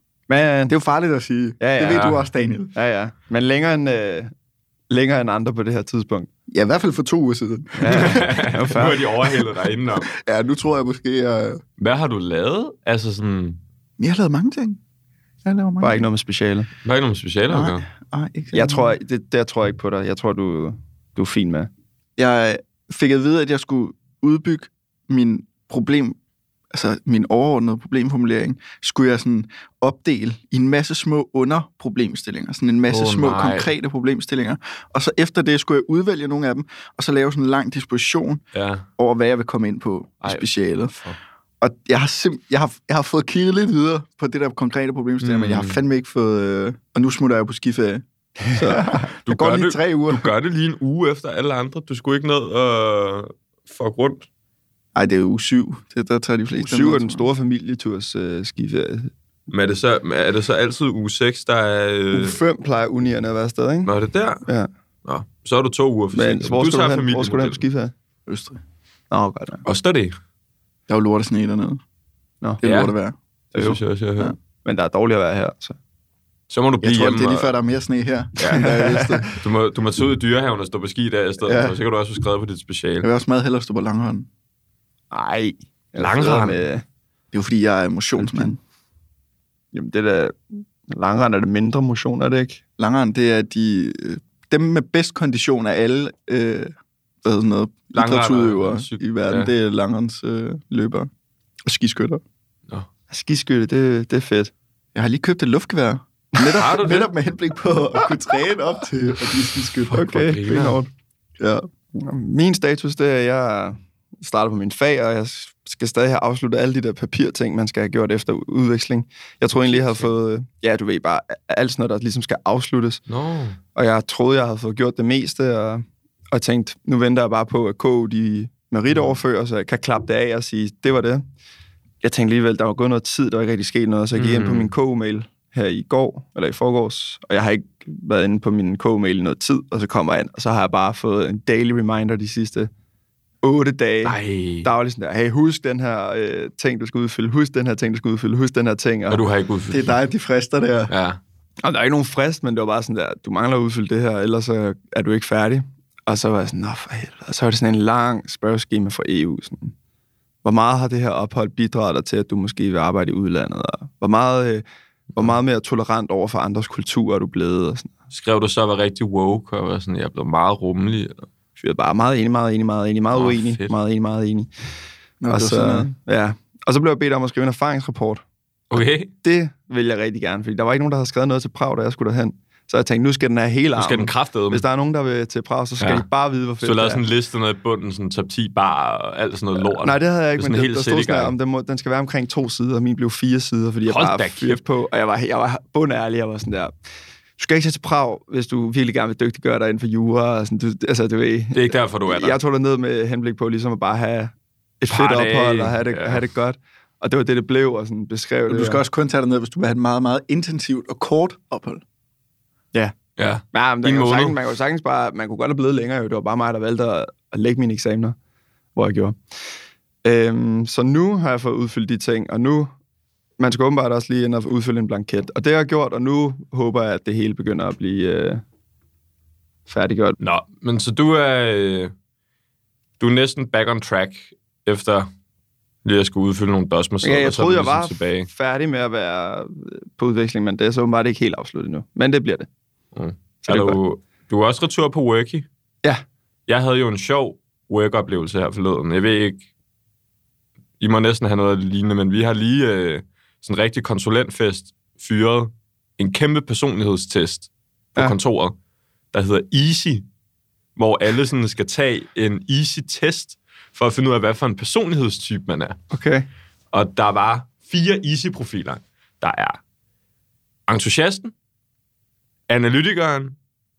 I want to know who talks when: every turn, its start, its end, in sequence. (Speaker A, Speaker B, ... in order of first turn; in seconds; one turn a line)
Speaker A: 0.3-0.7
Speaker B: 0.7-2.7
Speaker A: 1.6-2.2
Speaker A: 2.7-4.3
Speaker A: 4.9-6.3
Speaker B: 6.5-8.3
Speaker A: 7.8-9.3
Speaker C: 7.9-10.1
Speaker B: 9.9-11.6
Speaker C: 11.8-13.6
Speaker B: 14.0-14.8
Speaker B: 15.4-16.1
Speaker A: 15.8-16.7
Speaker C: 16.8-17.9
Speaker B: 17.5-18.9
Speaker A: 18.5-21.7
Speaker B: 22.2-26.1
Speaker B: 26.7-38.4
Speaker C: 32.9-33.7
Speaker C: 38.5-38.9
Speaker B: 39.0-41.0
Speaker B: 41.6-48.0
Speaker C: 45.2-45.8
Speaker A: 48.5-49.0
Speaker B: 48.5-50.3
Speaker C: 49.2-54.3
Speaker B: 54.9-57.2
Speaker A: 56.6-59.1
Speaker C: 59.5-62.4
Speaker A: 62.1-63.9
Speaker C: 63.9-64.4
Speaker C: 65.0-67.6
Speaker A: 66.1-67.9
Speaker B: 68.3-68.6
Speaker A: 69.1-69.6
Speaker C: 69.6-70.1
Speaker B: 70.9-71.8
Speaker B: 72.6-73.2
Speaker C: 72.6-72.9
Speaker C: 73.5-74.3
Speaker A: 74.6-75.8
Speaker C: 76.5-77.5
Speaker B: 76.8-79.3
Speaker C: 78.4-78.7
Speaker A: 78.5-79.3
Speaker C: 79.3-83.1
Speaker B: 81.4-81.8
Speaker B: 83.0-84.3
Speaker A: 85.1-86.8
Speaker C: 86.0-86.6
Speaker B: 87.3-88.6
Speaker A: 88.2-88.6
Speaker A: 89.7-92.6
Speaker B: 92.8-96.7
Speaker B: 97.2-101.1
Speaker C: 97.9-99.5
Speaker B: 101.6-102.2
Speaker A: 103.1-104.5
Speaker B: 104.9-110.0
Speaker C: 106.5-107.1
Speaker A: 109.9-110.9
Speaker C: 109.9-110.8
Speaker B: 111.4-111.7
Speaker A: 111.9-123.0
Speaker C: 119.6-120.1
Speaker C: 123.1-123.6
Speaker A: 123.7-131.2
Speaker A: 132.0-142.7
Speaker C: 134.1-134.7
Speaker A: 143.4-149.2
Speaker C: 144.0-144.7
Speaker C: 149.1-149.9
Speaker B: 149.7-150.9
Speaker C: 150.9-151.2
Speaker A: 151.6-159.7
Speaker A: 160.4-167.9
Speaker C: 168.1-171.3
Speaker A: 171.6-174.5
Speaker C: 173.1-173.7
Speaker B: 175.2-175.9
Speaker A: 175.3-178.2
Speaker C: 178.7-179.1
Speaker A: 178.8-187.0
Speaker C: 183.8-184.6
Speaker C: 185.8-186.0
Speaker C: 186.6-191.3
Speaker A: 189.6-196.7
Speaker C: 193.8-194.6
Speaker A: 197.4-208.8
Speaker C: 201.5-202.4
Speaker C: 204.9-206.2
Speaker B: 208.5-211.8
Speaker C: 213.2-214.4
Speaker A: 213.5-218.2
Speaker A: 218.7-219.2
Speaker A: 220.0-222.7
Speaker A: 223.4-228.4
Speaker A: 229.7-230.2
Speaker C: 230.2-231.9
Speaker C: 233.0-235.1
Speaker C: 235.8-238.3
Speaker A: 237.0-242.5
Speaker C: 242.9-245.4
Speaker A: 243.4-243.8
Speaker C: 246.5-249.4
Speaker C: 250.8-258.5
Speaker C: 259.1-260.0
Speaker C: 260.8-265.8
Speaker A: 265.9-266.3
Speaker C: 266.7-269.6
Speaker C: 270.7-271.3
Speaker C: 272.5-273.4